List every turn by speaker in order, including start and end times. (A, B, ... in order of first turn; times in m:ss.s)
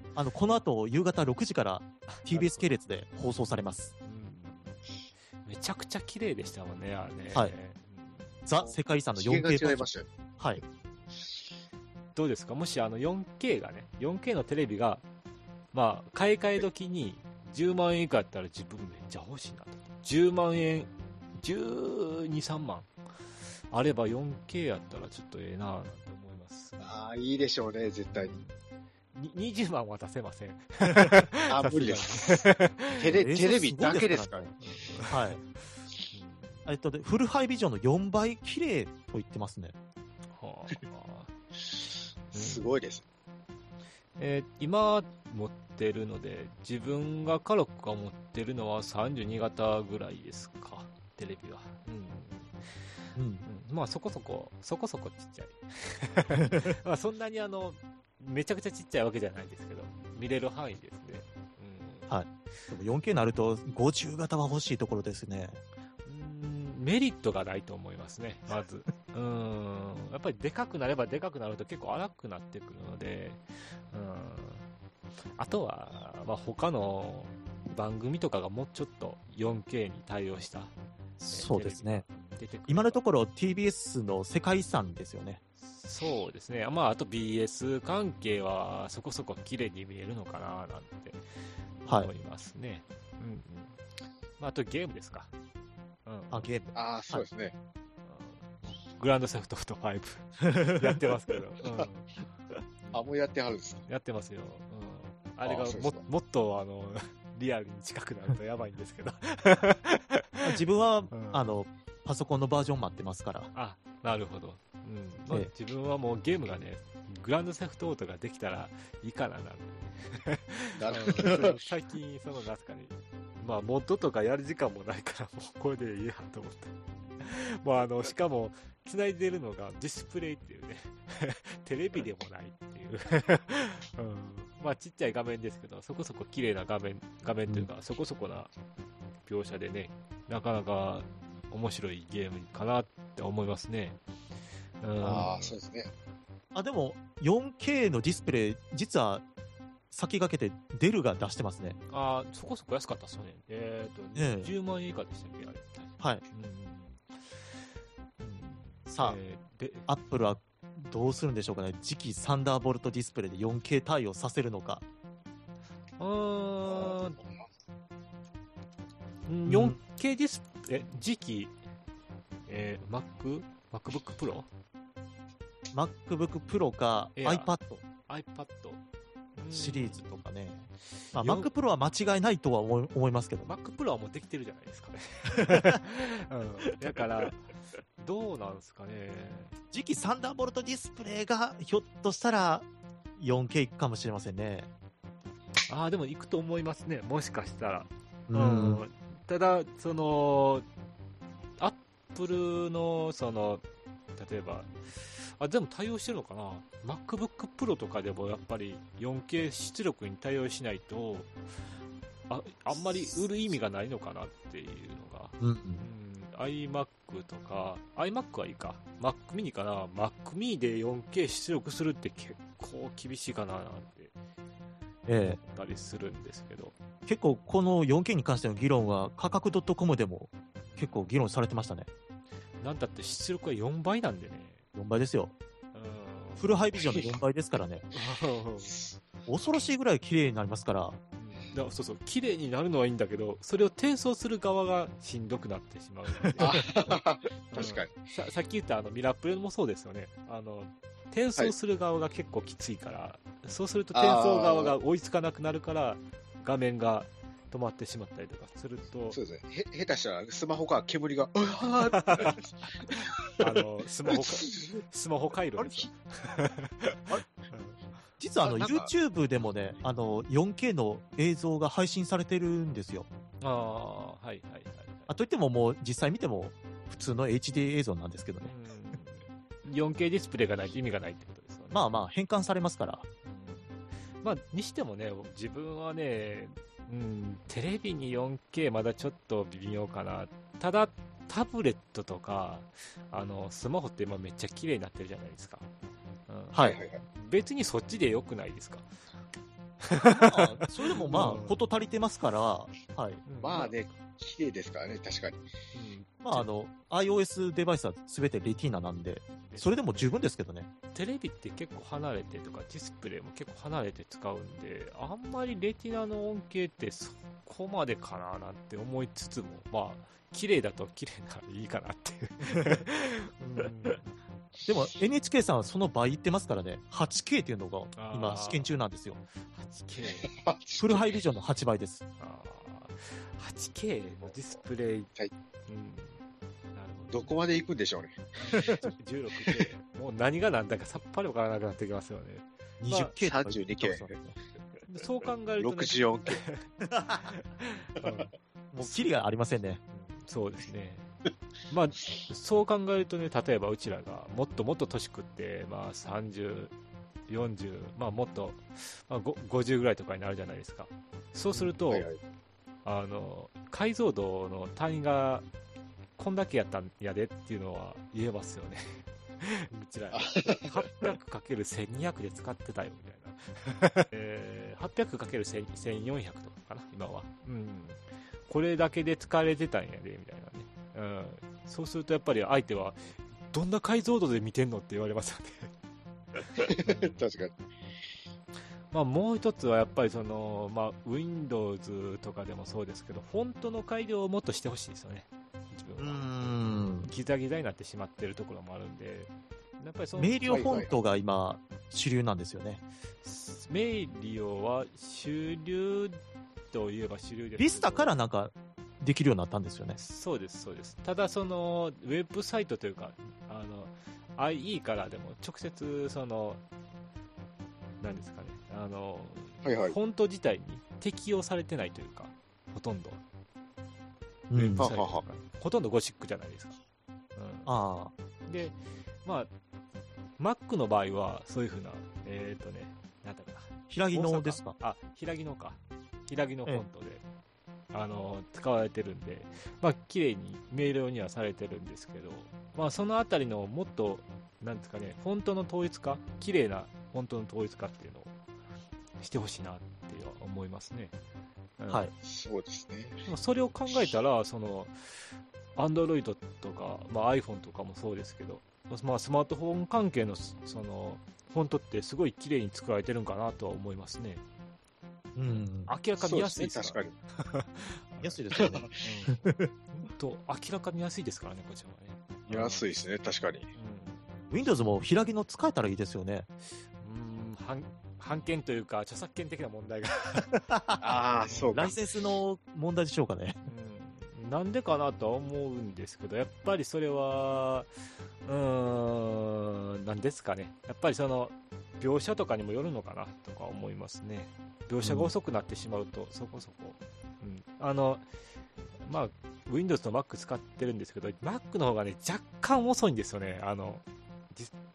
0:00.2-0:03.9 A
0:02.1-0:02.8 B
0:04.0-0:04.8 B
0:05.4-0:08.4 B
0:08.4-0:10.6 A
0:08.6-0:10.1 C
0:12.1-0:15.0 B
0:15.7-0:22.9 B
0:23.7-0:27.0 B
0:26.8-0:28.4 C
0:28.1-0:28.6 B
0:29.1-0:33.2 B
0:31.5-0:34.5 C
0:33.1-0:34.5 A
0:34.6-0:36.6 B
0:35.1-0:35.4 A
0:36.6-0:39.7 A
0:40.3-0:41.3 B
0:42.3-0:43.0 C
0:42.3-0:42.8 B
0:44.2-0:52.8 B
0:53.2-0:53.4 A
0:53.4-1:02.1 B
0:56.4-0:56.7 A
1:02.1-1:05.6 A
1:06.0-1:14.6 B
1:15.4-1:20.7 B
1:21.2-1:22.0 A
1:21.3-1:23.0 B
1:22.7-1:25.4 A
1:25.6-1:31.2 B
1:31.8-1:33.8 B
1:31.8-1:32.1 A
1:34.4-1:35.3 B
1:36.0-1:36.5 B
1:36.3-1:36.7 A
1:36.7-1:37.5 C
1:38.0-1:42.2 B
1:42.9-1:43.8 C
1:43.9-1:50.6 B
1:45.4-1:46.0 C
1:50.4-1:53.5 A
1:51.1-1:51.5 B
1:53.5-2:18.5 B
2:00.8-2:01.6 C
2:19.2-2:24.0 B
2:24.8-2:25.6 B
2:25.0-2:25.3 A
2:25.0-2:25.9 C
2:26.5-2:29.2 A
2:29.9-2:31.8 A
2:31.9-2:37.5 B
2:34.1-2:34.5 A
2:38.2-2:39.9 B
2:38.9-2:39.2 A
2:39.9-2:44.8 A
2:46.0-2:47.2 B
2:49.3-2:51.5 B
2:49.5-2:49.8 A
2:52.5-2:54.5 B
2:55.7-2:57.8 A
2:57.2-2:57.5 B
2:58.0-2:58.8 B
2:59.4-3:00.0 B
2:59.5-3:03.5 A
3:01.1-3:01.5 B
3:03.4-3:09.5 B
3:05.4-3:05.8 A
3:09.7-3:14.7 A
3:15.7-3:20.6 B
3:18.3-3:18.8 A
3:21.6-3:23.6 B
3:24.2-3:31.3 B
3:32.3-3:44.1 B
3:35.4-3:35.8 A
3:45.1-3:45.4 A
3:45.2-3:46.7 B
3:47.1-3:51.9 A
3:50.6-3:51.1 B
3:52.6-3:54.6 B
3:54.7-3:55.3 A
3:55.7-3:56.6 B
3:56.4-3:57.8 A
3:57.9-3:58.8 B
3:59.3-4:01.0 A
4:01.2-4:07.0 B
4:06.4-4:07.9 C
4:07.5-4:19.2 B
4:13.9-4:14.7 C
4:19.1-4:23.4 C
4:21.9-4:22.4 B
4:23.4-4:28.0 B
4:24.1-4:24.8 C
4:28.2-4:33.1 A
4:28.4-4:28.9 C
4:33.4-4:35.1 B
4:35.1-4:38.5 A
4:38.4-4:41.8 B
4:41.7-4:43.0 A
4:43.2-4:55.7 B
4:56.3-4:58.9 B
4:56.5-4:56.8 A
4:56.6-4:57.0 C
4:59.8-5:01.6 B
5:00.1-5:03.2 A
5:03.2-5:03.8 B
5:03.4-5:05.4 C
5:05.7-5:06.5 B
5:06.2-5:10.7 A
5:09.3-5:10.1 B
5:10.9-5:24.1 B
5:22.5-5:22.8 A
5:24.6-5:29.2 A
5:27.9-5:28.8 B
5:29.3-5:30.4 B
5:30.3-5:31.1 C
5:30.8-5:32.0 A
5:32.2-5:35.1 B
5:35.7-5:36.2 B
5:36.7-5:37.4 B
5:37.1-5:38.2 C
5:38.4-5:43.1 B
5:42.8-5:44.4 A
5:43.2-5:44.1 C
5:44.8-5:49.1 B
5:45.6-5:46.4 C
5:48.7-5:49.8 A
5:49.9-5:51.1 B
5:51.7-5:56.7 B
5:57.3-6:02.1 B
6:01.9-6:02.2 C
6:02.8-6:05.4 B
6:06.2-6:25.7 B
6:10.1-6:10.7 C
6:26.5-6:27.5 C
6:26.8-6:27.2 B
6:28.9-6:36.3 B
6:36.0-6:37.1 A
6:37.0-6:40.8 B
6:40.2-6:42.8 A
6:40.5-6:40.9 C
6:43.2-6:48.1 B
6:47.6-6:50.0 A
6:50.0-6:56.6 B
6:58.0-7:03.2 B
6:59.6-7:00.0 C
7:04.5-7:04.9 A
7:04.5-7:06.8 B
7:04.8-7:05.2 C
7:07.4-7:07.7 B
7:07.6-7:08.1 A
7:08.4-7:09.5 B
7:10.4-7:17.2 B
7:13.9-7:14.8 A
7:17.9-7:28.3 B
7:29.2-7:31.2 B
7:31.8-7:32.1 B
7:32.2-7:33.3 C
7:33.2-7:44.4 B
7:45.3-7:45.9 A
7:45.5-7:48.4 B
7:46.2-7:47.2 C
7:48.2-7:48.9 A
7:48.6-7:48.9 C
7:49.0-7:52.8 B
7:49.4-7:49.7 A
7:52.5-7:53.7 C
7:53.7-7:54.4 B
7:54.5-7:56.5 A
7:57.0-8:00.6 B
8:00.6-8:01.0 A
8:01.0-8:01.9 C
8:01.4-8:01.8 B
8:01.7-8:03.6 A
8:03.6-8:18.2 B
8:15.0-8:15.3 A
8:19.0-8:24.7 B